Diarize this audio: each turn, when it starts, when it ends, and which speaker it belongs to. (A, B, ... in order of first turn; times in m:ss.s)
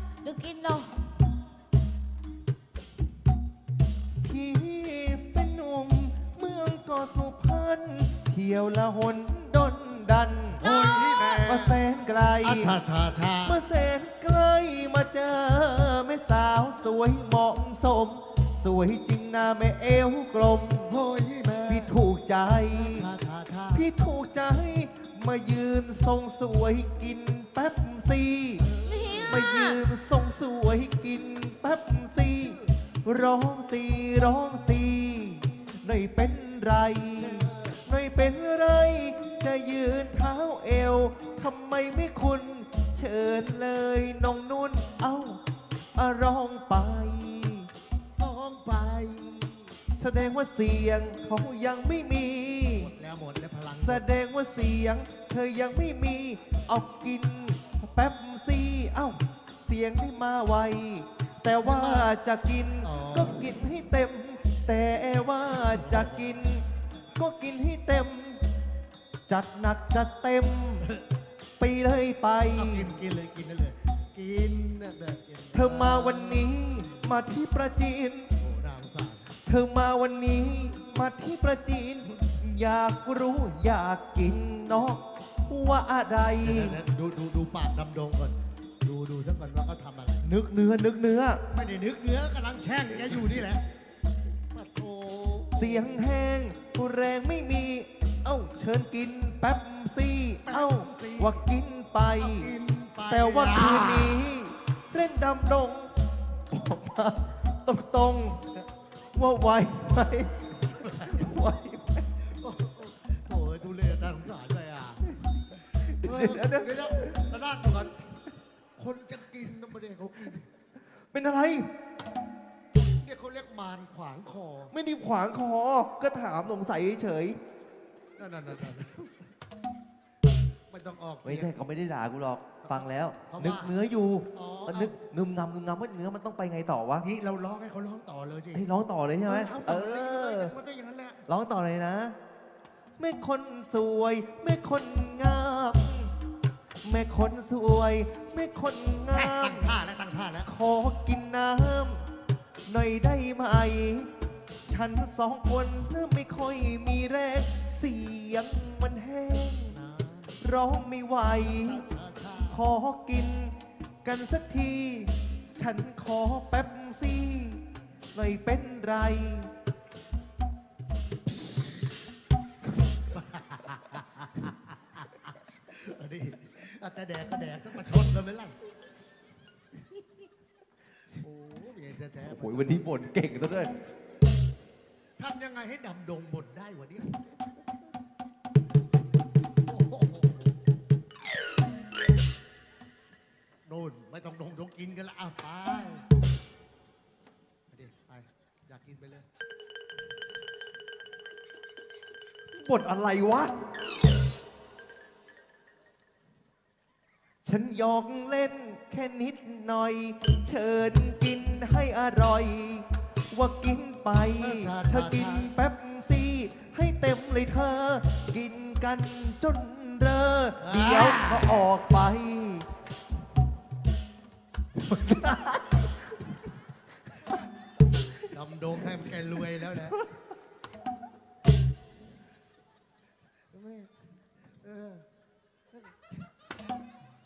0:00.2-0:00.9 A
0:04.2-0:10.6 B
0:10.6-0:11.8 C
0:10.6-0:11.4 A
0:11.4-0:12.8 B
0:12.4-0:13.6 C
0:13.4-0:20.9 B
0:20.9-0:21.9 C
0:21.7-0:23.1 B
0:22.7-0:23.9 C
0:23.7-0:28.7 B
0:28.7-0:29.4 C
0:28.8-0:29.8 A
0:29.2-0:45.4 B
0:37.2-0:37.8 C
0:46.0-0:47.7 B
0:48.2-0:49.7 C
0:50.0-0:52.9 B
0:52.7-0:54.0 C
0:53.7-1:08.4 B
1:01.6-1:02.1 C
1:02.8-1:03.5 C
1:05.5-1:06.4 C
1:09.3-1:10.9 B
1:11.6-1:13.0 B
1:12.5-1:16.6 C
1:15.5-1:18.3 B
1:18.4-1:19.4 C
1:19.4-1:26.8 B
1:26.4-1:30.3 C
1:30.2-1:31.4 B
1:31.5-1:33.6 C
1:34.5-1:36.0 C
1:35.5-1:42.5 B
1:40.4-1:41.4 C
1:42.1-1:44.2 C
1:43.0-1:48.5 B
1:49.1-1:52.1 B
1:50.8-1:51.3 C
1:52.1-1:55.1 C
1:55.7-1:58.2 C
1:55.8-1:57.2 B
1:58.8-2:00.5 C
2:01.0-2:01.7 B
2:03.0-2:04.7 C
2:04.7-2:07.4 B
2:08.2-2:09.3 C
2:10.7-2:11.6 C
2:11.2-2:17.1 B
2:12.6-2:13.8 C
2:14.3-2:15.0 C
2:17.0-2:18.7 C
2:18.5-2:20.5 B
2:19.2-2:21.2 C
2:21.3-2:22.2 B
2:23.0-2:26.1 B
2:26.8-2:29.8 B
2:29.1-2:30.5 C
2:30.4-2:32.0 B
2:32.6-2:34.1 B
2:34.7-2:39.8 B
2:39.7-2:40.4 C
2:40.4-2:41.8 B
2:41.4-2:42.6 C
2:42.5-2:49.5 B
2:53.1-2:58.6 C
3:01.1-3:02.9 C
3:02.2-3:03.8 B
3:05.2-3:07.3 C
3:09.6-3:10.6 C
3:13.6-3:16.0 C
3:17.7-3:19.2 C
3:22.5-3:23.5 B
3:27.4-3:42.6 B
3:34.4-3:35.5 C
3:40.6-3:41.7 C
3:44.8-3:45.9 B
3:48.2-3:50.0 C
3:49.7-3:50.0 B
3:53.5-3:54.0 C
3:54.6-3:55.0 C